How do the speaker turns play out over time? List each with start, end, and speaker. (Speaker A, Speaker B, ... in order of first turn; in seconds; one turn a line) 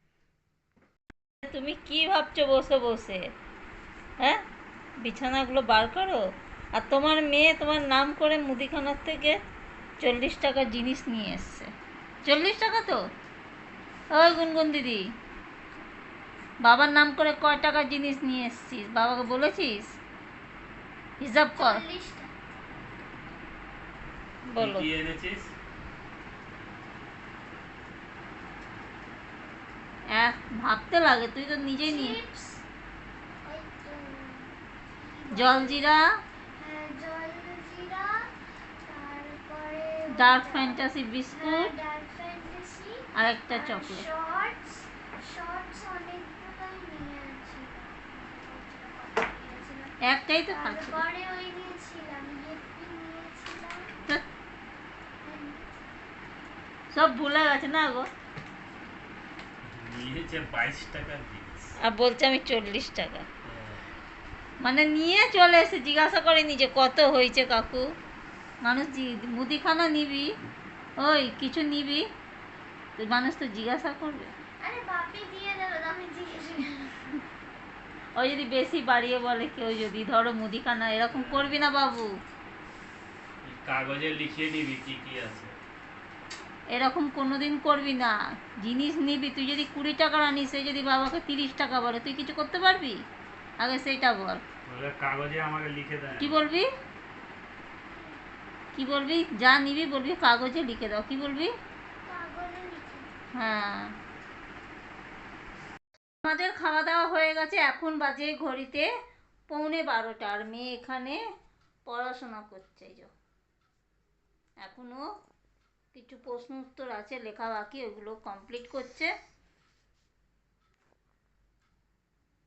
Speaker A: 1.4-3.2
Speaker A: 5.0-9.4
Speaker A: 10.0-11.7
Speaker A: 12.2-13.0
Speaker A: 14.1-15.1
Speaker A: 16.6-19.9
Speaker A: 21.2-21.8
Speaker B: 21.6-22.3
Speaker A: 24.5-24.9
Speaker C: 24.6-25.5
Speaker A: 30.1-32.2
Speaker B: 31.8-32.6
Speaker B: 33.5-35.9
Speaker A: 35.3-36.1
Speaker B: 36.6-38.3
Speaker B: 38.9-50.0
Speaker A: 40.1-41.7
Speaker A: 43.1-44.1
Speaker A: 50.0-51.0
Speaker B: 50.5-54.0
Speaker B: 55.2-55.9
Speaker A: 56.9-58.1
Speaker C: 59.6-61.7
Speaker A: 61.8-63.3
Speaker C: 63.5-63.8
Speaker A: 64.6-67.9
Speaker A: 68.6-70.3
Speaker A: 71.0-72.0
Speaker A: 73.0-74.3
Speaker B: 74.6-77.2
Speaker A: 78.2-82.1
Speaker C: 81.1-81.5
Speaker C: 83.4-85.5
Speaker A: 86.7-93.0
Speaker A: 93.6-94.4
Speaker C: 94.7-96.4
Speaker A: 96.2-96.7
Speaker A: 98.8-101.5
Speaker B: 102.0-103.1
Speaker A: 103.3-103.9
Speaker A: 106.2-108.9
Speaker A: 109.5-111.2
Speaker A: 111.9-113.1
Speaker A: 114.6-115.1
Speaker A: 115.9-119.1